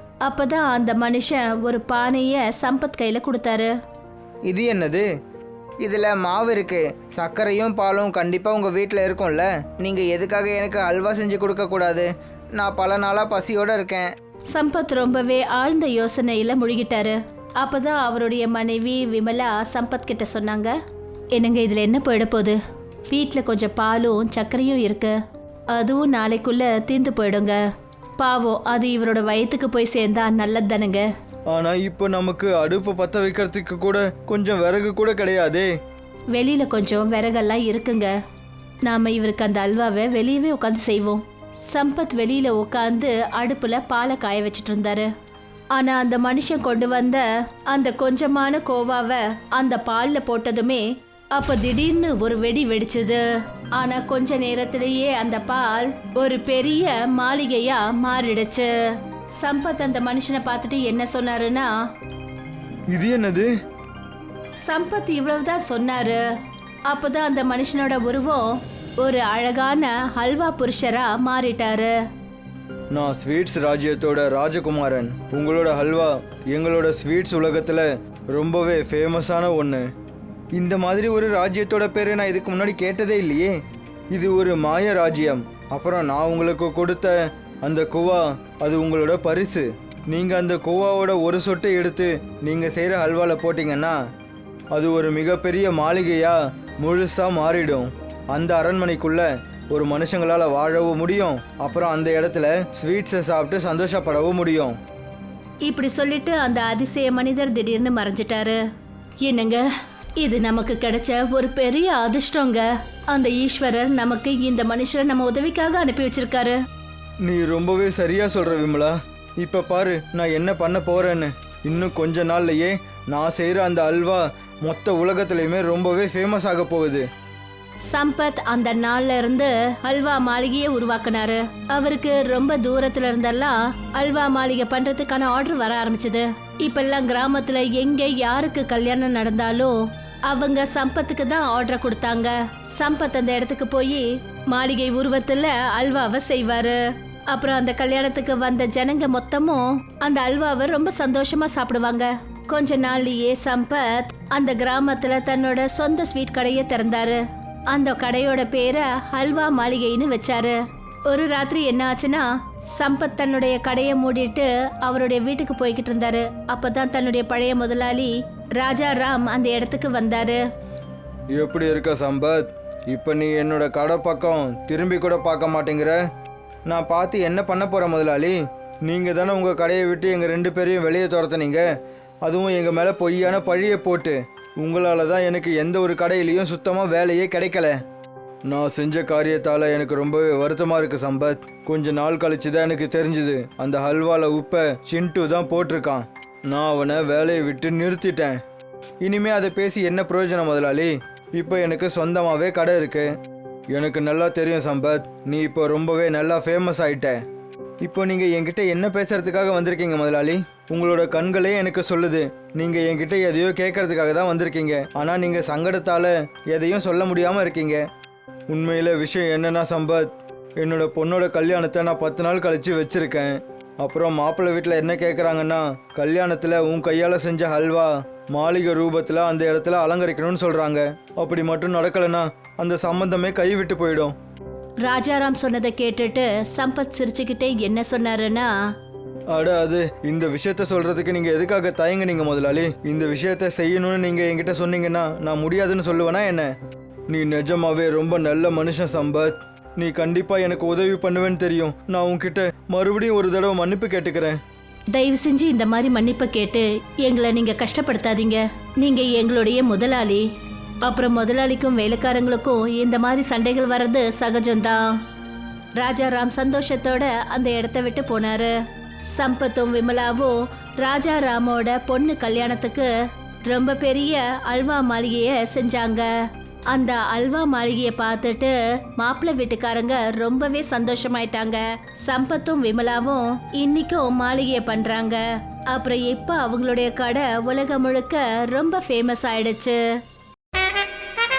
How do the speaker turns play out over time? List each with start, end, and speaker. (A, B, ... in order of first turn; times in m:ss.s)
0:00.2-0:03.7 A
0:04.5-0:05.1 B
0:05.8-0:14.1 B
0:14.5-0:20.7 A
0:21.3-0:22.6 A
0:23.1-0:25.1 A
0:25.7-0:27.6 A
0:28.2-0:31.0 A
0:31.5-0:35.7 C
0:36.3-0:38.1 A
0:38.8-0:45.1 A
0:45.7-0:53.2 A
0:53.8-0:58.7 A
0:59.4-1:01.7 A
1:02.9-1:03.5 C
1:04.6-1:06.2 A
1:06.9-1:11.9 A
1:12.9-1:19.9 C
1:20.5-1:23.6 C
1:24.1-1:34.0 C
1:34.7-1:44.8 C
1:45.6-1:48.6 A
1:49.2-1:49.6 A
1:50.2-1:56.6 A
1:57.2-2:07.1 C
2:07.9-2:50.4 A
2:51.3-2:56.0 C
2:56.7-3:01.7 C
3:02.2-3:07.8 C
3:08.5-3:18.4 C
3:19.0-3:23.1 C
3:23.7-3:27.2 C
3:27.8-3:37.8 C
3:38.5-3:54.1 C
3:54.8-3:58.5 A
3:59.3-4:06.5 C
4:07.1-4:14.4 C
4:14.9-4:20.2 A
4:20.8-4:25.0 A
4:25.8-4:28.5 A
4:29.1-4:32.9 A
4:33.5-4:36.1 A
4:36.7-4:49.8 A